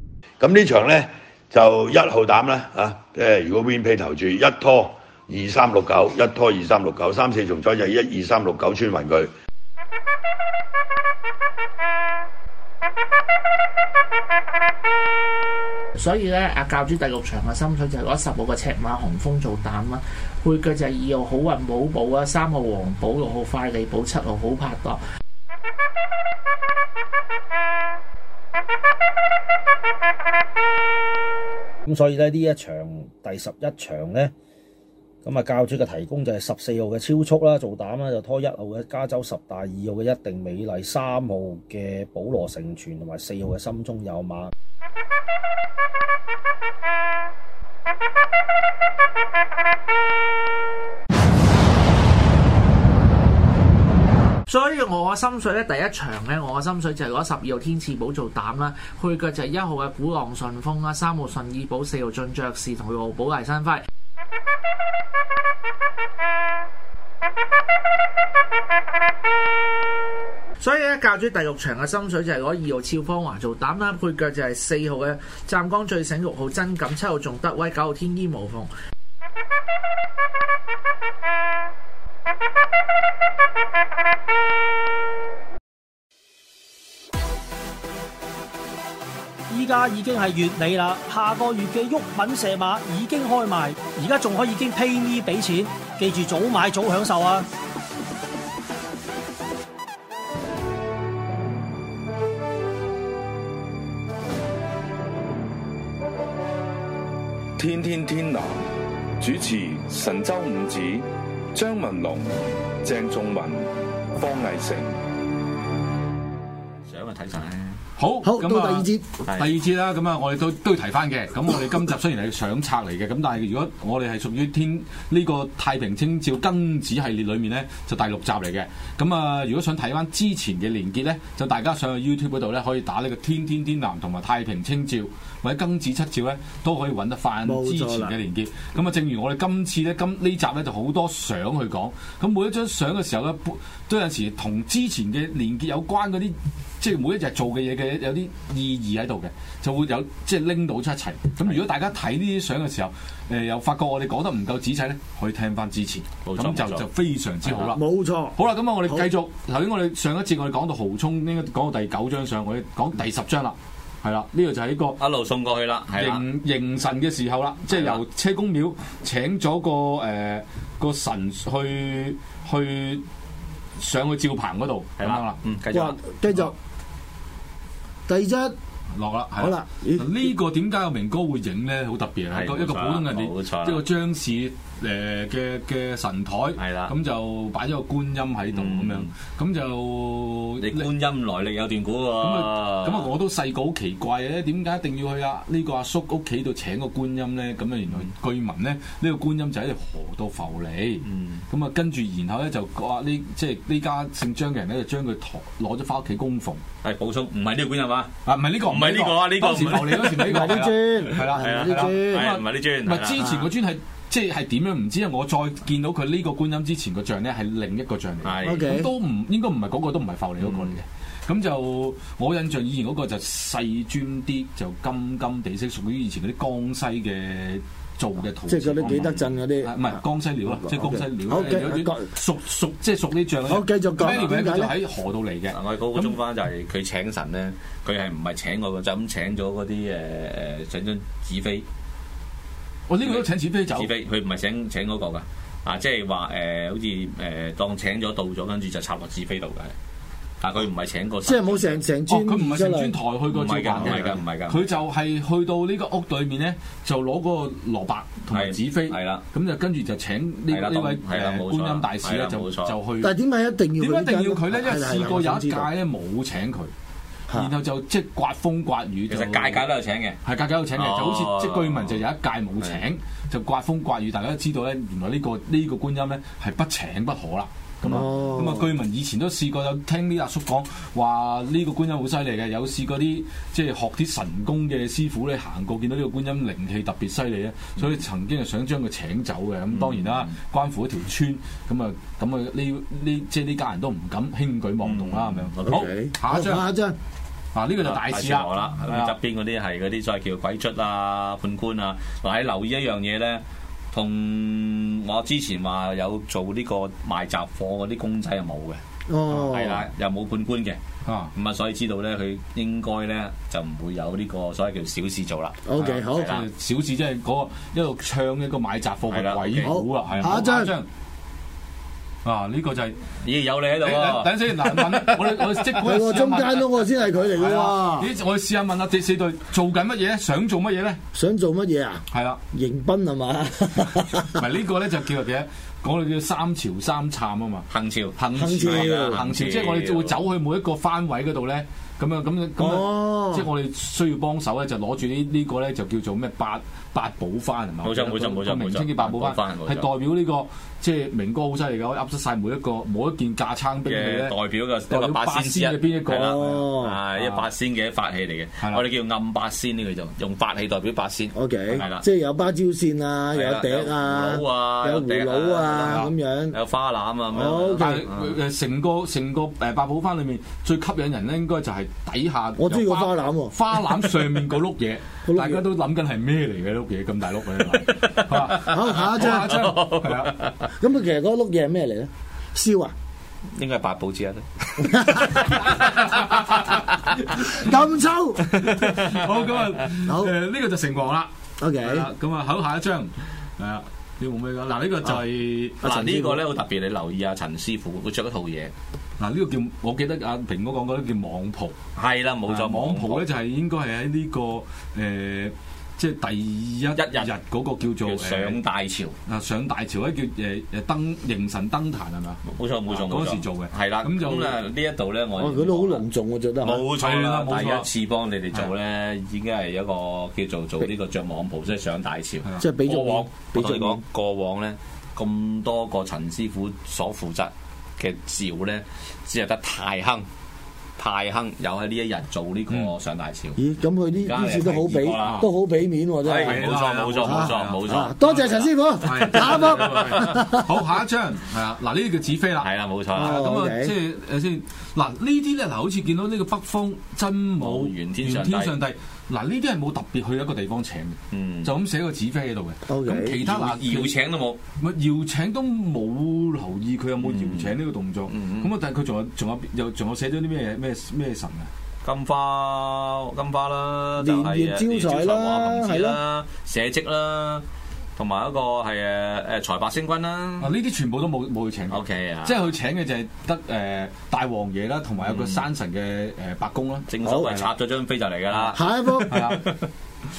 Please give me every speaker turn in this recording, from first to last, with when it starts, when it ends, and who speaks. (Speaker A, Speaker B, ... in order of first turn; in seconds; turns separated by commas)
Speaker A: 0.4-9.3, Speaker B: 16.0-25.0, Speaker C: 31.8-34.3, Speaker C: 35.2-44.5, Speaker B: 54.5-63.8, Speaker B: 70.6-78.7, Speaker D: 89.5-97.5, Speaker E: 107.6-108.6, Speaker E: 109.2-115.0, Speaker F: 116.8-117.8, Speaker G: 118.0-157.8, Speaker H: 118.2-119.1, Speaker H: 137.4-138.1, Speaker F: 156.2-156.9, Speaker F: 157.4-157.7, Speaker H: 157.6-158.4, Speaker G: 158.3-165.0, Speaker F: 165.0-166.2, Speaker G: 166.0-173.0, Speaker F: 167.7-168.0, Speaker G: 173.8-175.4, Speaker F: 175.0-176.0, Speaker H: 175.7-176.5, Speaker H: 178.1-178.5, Speaker G: 178.9-190.9, Speaker H: 179.4-180.2, Speaker F: 182.3-183.8, Speaker F: 186.6-186.9, Speaker F: 188.5-189.1, Speaker F: 190.6-193.1, Speaker G: 192.2-206.6, Speaker F: 201.0-201.4, Speaker F: 206.8-213.3, Speaker G: 208.2-236.2, Speaker H: 210.1-212.3, Speaker H: 213.2-213.4, Speaker F: 218.2-218.7, Speaker H: 218.4-218.9, Speaker F: 220.4-220.8, Speaker H: 228.5-229.8, Speaker H: 230.6-232.1, Speaker H: 233.5-234.7, Speaker F: 235.5-241.6, Speaker G: 242.9-243.9, Speaker F: 243.0-249.7, Speaker F: 250.4-251.8, Speaker H: 251.2-252.9, Speaker G: 252.1-263.1, Speaker F: 253.3-254.7, Speaker H: 253.8-254.1, Speaker F: 258.3-259.2, Speaker F: 260.5-262.7, Speaker H: 263.0-265.6, Speaker G: 263.8-266.7, Speaker G: 267.3-269.6, Speaker F: 269.1-270.2, Speaker G: 270.2-296.6, Speaker F: 270.8-272.0, Speaker H: 277.8-278.7, Speaker F: 289.7-290.3, Speaker F: 294.8-295.9, Speaker H: 295.6-296.9, Speaker G: 297.5-299.1, Speaker F: 297.8-310.8, Speaker H: 309.1-309.9, Speaker G: 311.0-311.3, Speaker F: 311.3-316.5, Speaker H: 315.6-316.3, Speaker G: 315.8-320.9, Speaker F: 319.1-320.3, Speaker H: 319.6-320.7, Speaker G: 322.2-323.0, Speaker F: 323.2-326.0, Speaker G: 323.8-326.6, Speaker H: 325.8-328.1, Speaker G: 327.2-331.0, Speaker H: 331.1-334.4, Speaker G: 332.1-332.4, Speaker G: 334.2-354.4, Speaker F: 337.7-340.2, Speaker H: 338.3-339.2, Speaker H: 342.6-343.5, Speaker F: 347.8-349.9, Speaker F: 353.8-362.0, Speaker G: 354.9-357.5, Speaker H: 356.1-357.0, Speaker H: 361.3-366.6, Speaker F: 363.3-368.3, Speaker G: 365.8-366.1, Speaker H: 367.3-368.1, Speaker G: 367.8-380.3, Speaker H: 372.6-373.5, Speaker H: 375.2-375.7, Speaker F: 377.8-380.7, Speaker H: 378.7-379.6, Speaker H: 380.8-382.9, Speaker F: 383.5-387.3, Speaker H: 384.8-385.4, Speaker G: 385.8-386.6, Speaker H: 387.5-388.5, Speaker F: 388.5-389.3, Speaker G: 388.6-395.8, Speaker H: 390.1-390.3, Speaker H: 391.6-392.1, Speaker F: 395.8-398.7, Speaker H: 395.8-396.4, Speaker G: 399.2-401.8, Speaker F: 401.9-403.2, Speaker G: 402.5-408.6, Speaker F: 406.9-407.3, Speaker F: 408.0-409.1, Speaker G: 409.2-414.6, Speaker F: 412.4-416.0, Speaker H: 415.4-416.8, Speaker F: 416.6-430.2, Speaker G: 416.9-417.9, Speaker H: 422.6-424.0, Speaker F: 431.0-433.6, Speaker H: 433.6-436.6, Speaker F: 434.2-435.4, Speaker G: 435.2-435.5, Speaker F: 436.2-440.5, Speaker G: 436.4-437.8, Speaker H: 437.2-440.8, Speaker G: 439.0-454.1, Speaker F: 442.6-443.4, Speaker H: 443.1-443.9, Speaker F: 447.6-448.7, Speaker F: 451.3-451.7, Speaker H: 452.9-453.4, Speaker F: 453.4-454.6, Speaker G: 454.8-461.7, Speaker F: 457.2-457.8, Speaker F: 458.3-458.7, Speaker F: 462.0-467.6, Speaker H: 464.2-466.2, Speaker F: 468.2-470.7, Speaker G: 470.6-477.7, Speaker F: 471.9-472.6, Speaker F: 475.2-475.7, Speaker F: 477.1-479.9, Speaker G: 478.5-479.6, Speaker H: 478.7-479.5